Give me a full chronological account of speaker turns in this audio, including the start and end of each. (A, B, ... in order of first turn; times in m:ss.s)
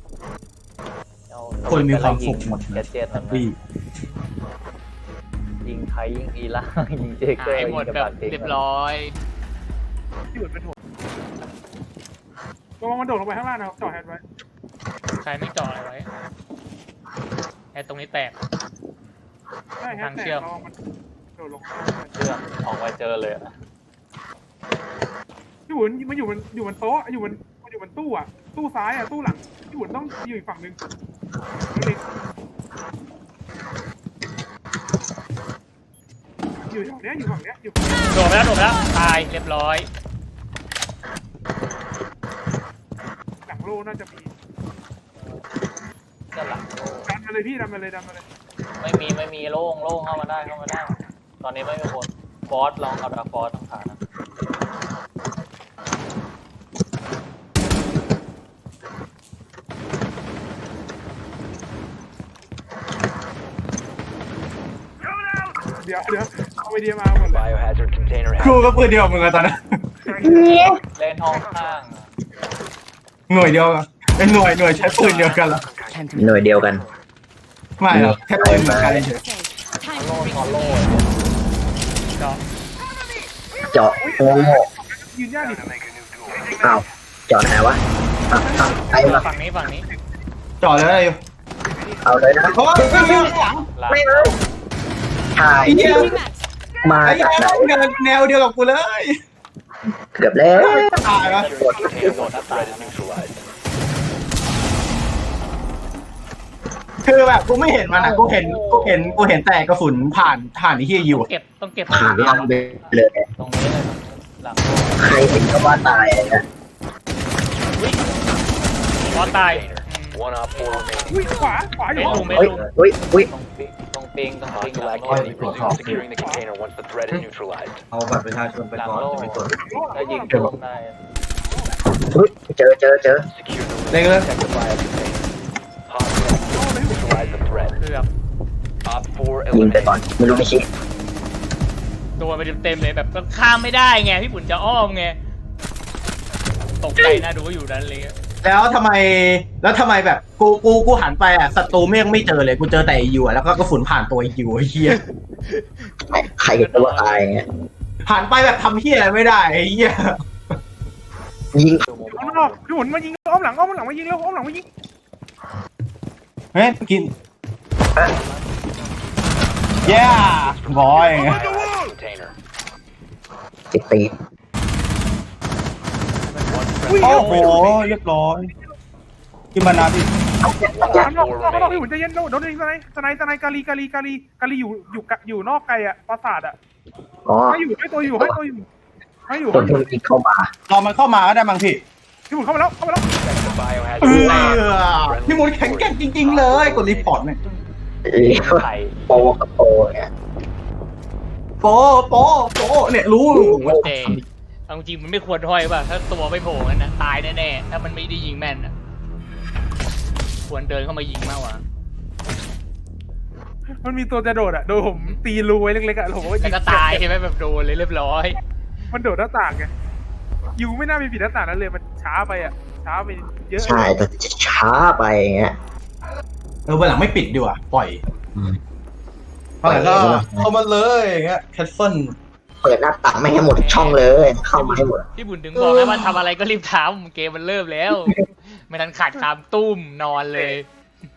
0:01.3-0:03.6 A
0:01.6-0:03.6 B
0:03.9-0:04.3 C
0:05.6-0:08.6 A
0:07.4-0:09.2 C
0:10.3-0:10.7 D
0:12.8-0:14.2 D
0:15.2-0:16.1 C
0:17.7-0:18.3 C
0:19.8-0:20.7 D
0:19.8-0:20.5 C
0:21.4-0:22.1 D
0:22.1-0:23.5 A
0:25.7-0:30.8 D
0:31.7-0:32.0 D
0:36.6-0:38.0 D
0:38.1-0:39.9 C
0:43.4-0:44.3 D
0:46.3-0:47.1 A
0:47.1-0:48.2 D
0:48.8-0:54.0 A
1:05.8-1:07.4 D
1:07.1-1:08.7 E
1:08.4-1:09.5 B
1:10.2-1:10.8 F
1:10.9-1:12.1 A
1:13.3-1:15.6 B
1:14.8-1:15.4 C
1:16.1-1:16.8 F
1:17.8-1:19.2 B
1:17.9-1:19.0 F
1:19.9-1:21.2 A
1:22.2-1:22.4 C
1:23.7-1:24.7 F
1:24.0-1:25.6 D
1:26.6-1:29.2 F
1:29.0-1:29.9 C
1:30.6-1:31.2 B
1:32.0-1:34.4 F
1:32.5-1:33.7 B
1:33.7-1:34.4 A
1:35.3-1:36.2 F
1:35.6-1:36.2 B
1:36.8-1:37.8 F
1:37.0-1:39.1 B
1:40.1-1:42.2 F
1:40.5-1:41.5 B
1:41.0-1:43.0 A
1:41.3-1:43.5 E
1:41.8-1:42.4 D
1:47.0-1:51.3 B
1:48.0-1:48.3 F
1:48.2-1:49.4 A
1:51.0-1:52.5 C
1:51.9-1:53.3 F
1:52.2-1:55.1 A
1:55.0-1:56.4 F
1:59.0-2:00.2 C
1:59.1-2:01.2 E
2:00.5-2:01.5 A
2:01.1-2:02.5 D
2:01.9-2:02.6 C
2:02.0-2:03.3 F
2:02.9-2:05.9 A
2:04.5-2:07.8 E
2:05.0-2:06.0 B
2:05.8-2:06.4 D
2:07.9-2:08.8 B
2:08.7-2:11.0 A
2:08.9-2:09.5 F
2:09.5-2:10.4 D
2:11.4-2:11.7 D
2:11.9-2:13.3 F
2:13.3-2:15.3 E
2:13.9-2:14.3 B
2:15.9-2:17.8 E
2:16.5-2:17.2 D
2:17.1-2:18.1 C
2:18.8-2:20.2 E
2:19.5-2:20.6 F
2:22.2-2:25.2 C
2:26.8-2:28.1 C
2:27.0-2:27.2 F
2:28.4-2:35.0 B
2:35.4-2:37.3 C
2:36.1-2:37.4 F
2:38.0-2:40.1 B
2:41.5-2:41.8 F
2:41.8-2:42.7 A
2:42.1-2:44.6 D
2:46.5-2:47.1 B
2:48.2-2:48.7 A
2:49.8-2:52.3 E
2:49.8-2:51.4 B
2:53.7-2:54.1 F
2:56.3-2:57.7 D
2:56.4-2:57.9 E
2:57.0-2:58.5 B
2:59.5-3:00.1 B
3:00.4-3:01.1 F
3:00.6-3:01.9 E
3:00.8-3:06.6 D
3:07.2-3:08.4 F
3:07.5-3:08.6 D
3:09.3-3:09.8 D
3:09.3-3:10.5 F
3:10.7-3:11.8 B
3:12.3-3:13.0 D
3:13.2-3:17.2 E
3:14.0-3:17.4 B
3:14.0-3:14.6 D
3:18.1-3:20.1 F
3:18.3-3:19.0 A
3:21.6-3:23.8 B
3:23.3-3:24.2 F
3:23.6-3:28.7 C
3:30.5-3:31.6 C
3:33.8-3:37.0 D
3:36.4-3:38.4 C
3:38.9-3:39.7 D
3:40.6-3:43.9 D
3:43.6-3:45.5 F
3:46.7-3:48.0 B
3:49.6-3:52.1 B
3:49.6-3:50.5 F
3:52.6-3:55.0 F
3:53.6-4:00.6 C
3:55.6-3:56.0 B